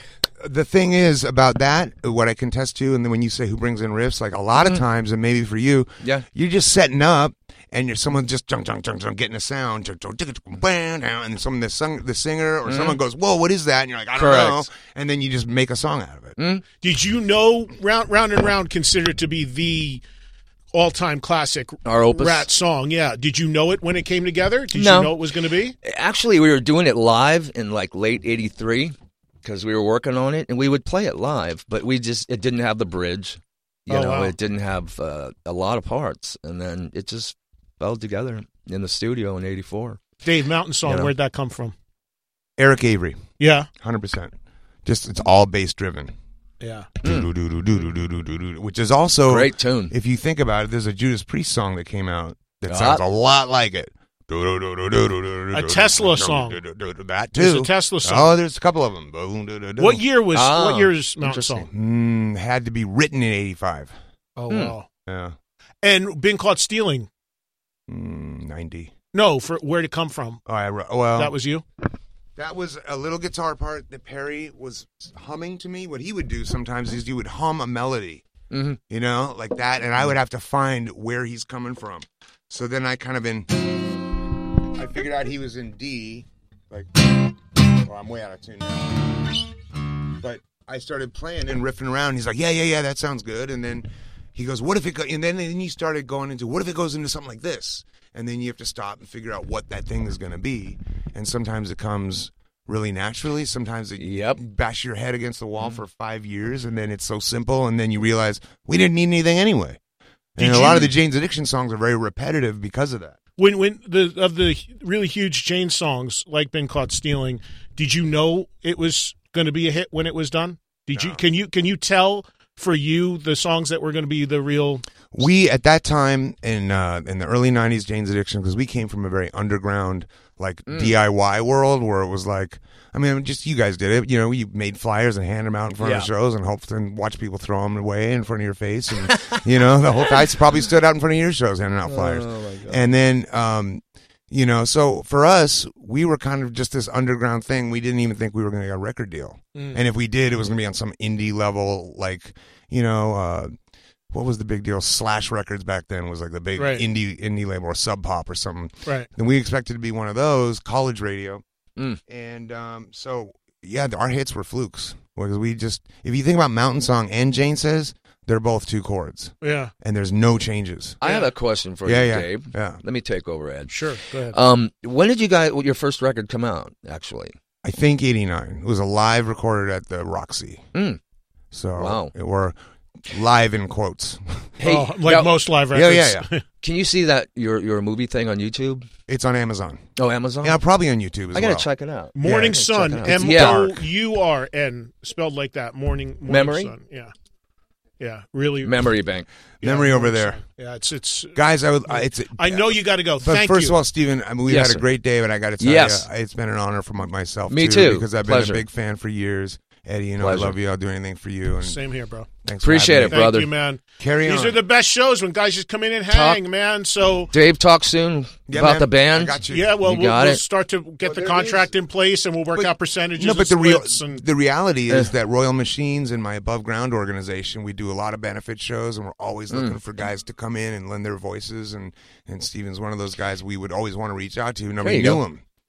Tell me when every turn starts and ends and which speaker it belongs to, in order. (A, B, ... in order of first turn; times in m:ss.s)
0:00.4-0:16.4 A
0:12.7-0:13.0 B
0:14.2-0:14.7 B
0:16.4-0:16.6 B
0:16.8-0:20.0 C
0:20.7-0:25.8 C
0:21.9-0:22.5 B
0:24.7-0:25.2 B
0:25.8-0:40.0 B
0:33.9-0:34.3 C
0:40.2-0:41.7 C
0:40.8-0:41.1 B
0:42.6-0:44.3 A
0:43.4-0:43.7 C
0:44.8-0:46.1 A
0:46.6-0:46.9 C
0:47.0-0:47.3 B
0:47.0-1:00.0 A
0:49.3-0:49.9 B
0:52.7-0:53.0 B
0:55.5-0:56.6 C
0:57.4-0:58.3 C
0:59.8-1:01.7 C
1:00.3-1:00.9 B
1:01.2-1:04.0 A
1:04.4-1:04.9 C
1:04.5-1:04.8 B
1:05.1-1:05.4 A
1:05.8-1:07.1 C
1:07.9-1:08.9 A
1:09.1-1:10.4 C
1:10.5-1:11.3 A
1:11.2-1:11.6 C
1:12.4-1:18.3 A
1:18.5-1:18.8 B
1:18.9-1:23.5 A
1:24.8-1:29.0 A
1:30.2-1:49.8 A
1:44.0-1:44.4 B
1:50.4-1:53.2 A
1:50.4-1:50.9 C
1:53.4-2:04.9 C
2:00.9-2:01.2 A
2:05.1-2:33.5 A
2:10.7-2:10.9 B
2:15.8-2:16.1 B
2:19.1-2:19.4 B
2:21.9-2:22.8 B
2:34.1-2:41.4 A
2:36.6-2:36.8 C
2:42.1-2:51.0 A
2:49.4-2:49.7 C
2:51.0-2:53.8 B
2:51.0-2:51.3 C
2:51.8-2:52.8 A
2:53.7-2:54.4 C
2:54.3-2:57.3 B
2:57.6-3:00.6 A
3:01.5-3:04.5 A
3:01.8-3:02.1 B
3:04.6-3:05.4 B
3:04.6-3:06.4 C
3:05.7-3:06.3 A
3:06.6-3:08.8 B
3:09.1-3:09.9 A
3:10.0-3:10.6 B
3:10.4-3:11.7 A
3:11.3-3:13.6 B
3:12.2-3:17.1 C
3:12.2-3:13.8 A
3:16.3-3:16.7 B
3:18.0-3:18.8 C
3:18.6-3:19.3 B
3:19.6-3:20.4 A
3:19.6-3:21.4 C
3:21.4-3:31.8 A
3:21.9-3:23.8 C
3:24.5-3:24.8 B
3:25.6-3:26.1 B
3:27.5-3:28.6 B
3:30.2-3:30.6 B
3:31.6-3:32.3 C
3:32.4-3:33.3 A
3:32.6-3:33.5 B
3:33.1-3:37.3 C
3:34.0-3:34.6 A
3:36.1-3:36.4 B
3:37.3-3:40.4 B
3:38.5-3:39.8 A
3:39.5-3:44.2 C
3:41.0-3:41.7 A
3:42.6-3:55.4 A
3:49.5-3:49.8 B
3:54.8-3:55.2 B